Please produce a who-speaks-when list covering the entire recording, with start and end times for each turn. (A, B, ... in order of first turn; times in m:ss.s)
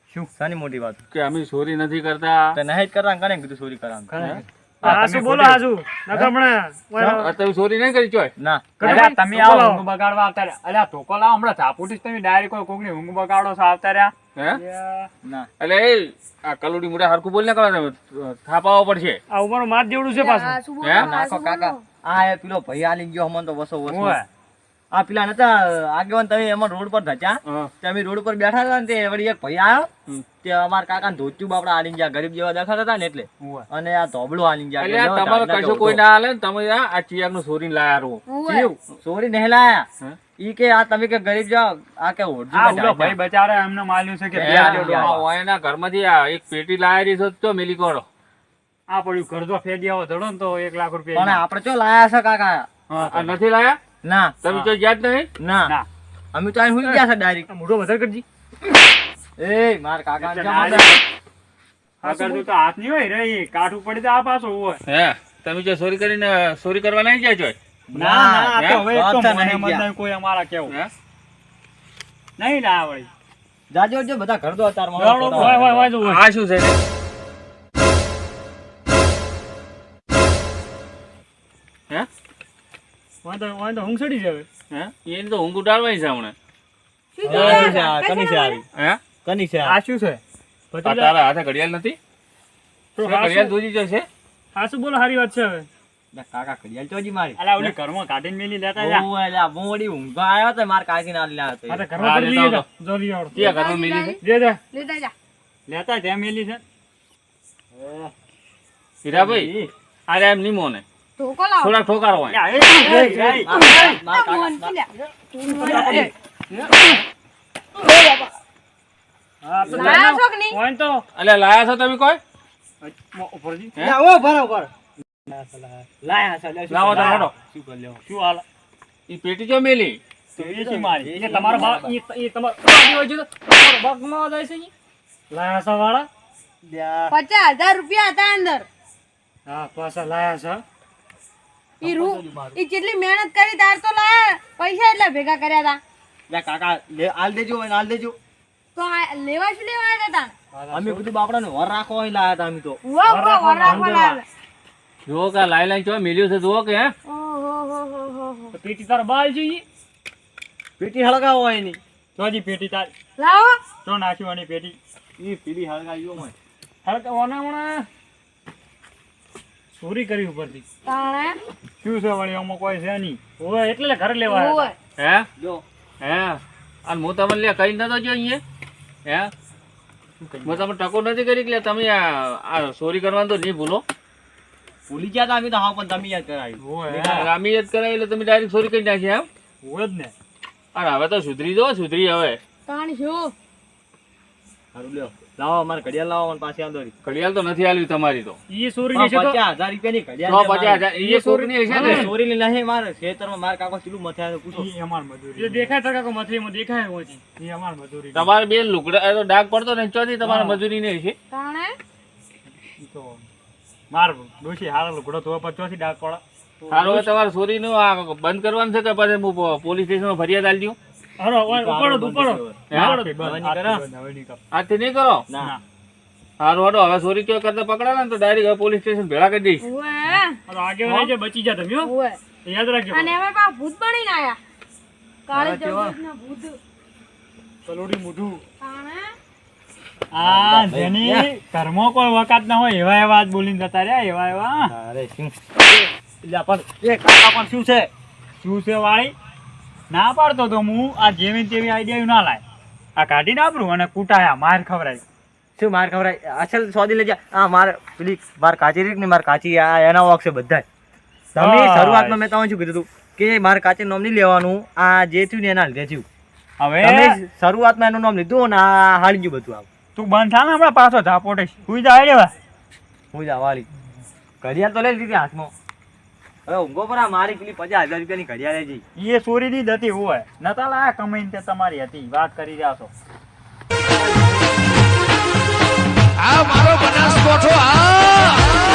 0:00.4-0:01.0 A
0:01.1-0:02.6 B
0:02.5-0:04.1 A
0:04.1-0:05.6 C
0:04.1-0:07.3 D
0:07.2-0:08.3 B
0:08.4-0:08.7 A
0:08.8-0:09.8 D
0:08.8-0:14.1 C
0:14.5-0:15.1 D
0:15.6-0:19.2 B
0:19.3-0:20.6 D
0:20.1-0:21.8 E
0:20.8-0:21.1 B
0:20.9-0:24.2 A
0:23.8-0:24.3 C
0:24.9-0:29.9 A
0:27.4-0:27.7 B
0:30.4-0:36.0 A
0:33.4-0:33.7 C
0:34.8-0:38.2 B
0:38.3-0:38.7 E
0:38.4-0:39.9 A
0:40.4-0:43.2 A
0:42.5-0:45.2 C
0:44.3-0:45.2 A
0:44.4-0:48.0 B
0:48.9-0:51.4 C
0:51.1-0:52.7 A
0:52.9-0:53.3 C
0:53.0-0:53.8 B
0:54.0-0:54.4 A
0:54.4-0:55.3 B
0:55.4-0:55.7 A
0:56.3-0:57.5 A
0:57.5-0:58.2 D
0:59.4-1:01.0 A
1:00.2-1:01.0 C
1:02.0-1:04.8 C
1:02.0-1:02.4 D
1:04.9-1:07.6 B
1:07.9-1:09.9 A
1:07.9-1:10.7 C
1:12.4-1:13.1 C
1:13.7-1:15.9 A
1:15.0-1:15.5 C
1:15.3-1:16.2 D
1:15.6-1:16.8 B
1:23.2-1:24.5 D
1:24.7-1:26.3 B
1:27.1-1:28.6 E
1:27.2-1:27.8 B
1:27.3-1:28.6 A
1:28.7-1:29.0 B
1:29.2-1:29.8 A
1:29.6-1:30.2 C
1:30.7-1:31.1 D
1:30.8-1:32.0 B
1:33.0-1:33.6 D
1:33.0-1:34.1 B
1:34.5-1:35.7 D
1:36.1-1:37.4 A
1:37.4-1:39.1 C
1:38.8-1:41.9 A
1:41.7-1:43.5 D
1:42.0-1:42.6 B
1:43.3-1:44.2 B
1:43.3-1:44.2 E
1:44.2-1:44.6 D
1:44.7-1:45.1 E
1:45.7-1:46.6 C
1:47.7-1:48.1 A
1:49.0-1:49.5 B
1:49.1-1:49.7 A
1:50.1-1:50.8 B
1:51.2-1:51.8 E
1:51.6-1:52.4 B
1:52.3-1:53.5 C
1:52.8-1:54.8 A
1:53.5-1:56.1 E
1:55.6-1:56.1 A
1:55.6-1:57.0 D
1:55.7-1:56.1 C
1:57.9-1:58.2 E
1:59.4-2:01.0 D
1:59.7-2:00.6 E
2:01.1-2:02.2 B
2:02.8-2:03.7 C
2:03.3-2:03.7 D
2:03.8-2:04.7 A
2:05.2-2:05.9 D
2:06.0-2:08.0 A
2:06.7-2:07.3 B
2:07.0-2:07.3 C
2:08.0-2:08.4 C
2:09.1-2:10.0 B
2:10.4-2:11.6 C
2:10.4-2:11.9 A
2:11.1-2:14.7 D
2:15.3-2:16.1 D
2:16.6-2:17.2 A
2:17.1-2:18.7 E
2:19.4-2:20.6 D
2:21.8-2:22.6 A
2:21.8-2:25.8 E
2:26.3-2:28.2 A
2:28.7-2:30.3 E
2:30.5-2:31.1 D
2:30.7-2:32.8 A
2:32.8-2:34.2 E
2:33.0-2:34.2 D
2:33.6-2:34.0 A
2:35.0-2:36.9 B
2:37.0-2:38.6 E
2:38.5-2:39.6 D
2:40.8-2:41.8 A
2:42.2-2:42.9 C
2:43.2-2:43.6 E
2:43.8-2:44.8 C
2:45.2-2:46.4 A
2:46.8-2:47.9 D
2:49.8-2:50.6 D
2:50.8-2:51.4 E
2:51.8-2:53.2 C
2:53.4-2:54.7 D
2:54.2-2:54.7 E
2:55.0-2:55.3 B
2:55.4-2:55.6 A
2:56.0-2:58.4 B
2:59.0-2:59.3 B
3:00.2-3:00.7 C
3:00.4-3:03.8 B
3:04.9-3:07.3 A
3:06.6-3:07.3 C
3:06.9-3:09.3 B
3:09.6-3:10.1 C
3:10.7-3:12.4 B
3:12.6-3:13.3 E
3:14.7-3:16.9 A
3:17.0-3:18.4 B
3:18.5-3:19.4 D
3:18.9-3:20.9 A
3:20.3-3:22.1 B
3:20.9-3:22.1 D
3:21.7-3:24.7 A
3:24.5-3:25.7 C
3:25.4-3:27.2 D
3:27.4-3:28.3 C
3:28.1-3:31.2 B
3:30.2-3:30.6 C
3:31.3-3:31.8 E
3:32.6-3:33.2 C
3:33.9-3:37.1 C
3:36.7-3:40.8 B
3:41.2-3:43.1 D
3:41.5-3:43.8 A
3:42.7-3:43.0 B
3:42.7-3:44.4 C
3:44.5-3:45.2 B
3:45.3-3:45.5 A
3:46.4-3:49.6 B
3:49.6-3:50.4 E
3:50.5-3:51.9 D
3:51.8-3:52.2 E
3:52.5-3:53.0 C
3:52.9-3:54.4 E
3:55.3-3:56.6 E
3:55.3-3:56.0 A
3:57.6-3:58.4 C
3:58.6-3:59.2 E
4:00.1-4:04.7 C
4:00.2-4:01.3 A
4:04.7-4:07.9 A
4:08.4-4:09.1 C
4:09.9-4:12.4 C
4:13.0-4:15.0 C
4:15.6-4:20.6 A
4:21.3-4:26.0 A
4:21.4-4:22.2 C
4:26.6-4:27.2 C
4:26.8-4:29.7 A
4:30.0-4:32.3 C
4:33.1-4:33.7 A
4:34.4-4:35.5 A
4:36.4-4:38.8 A
4:39.0-4:42.9 C
4:46.2-4:48.4 F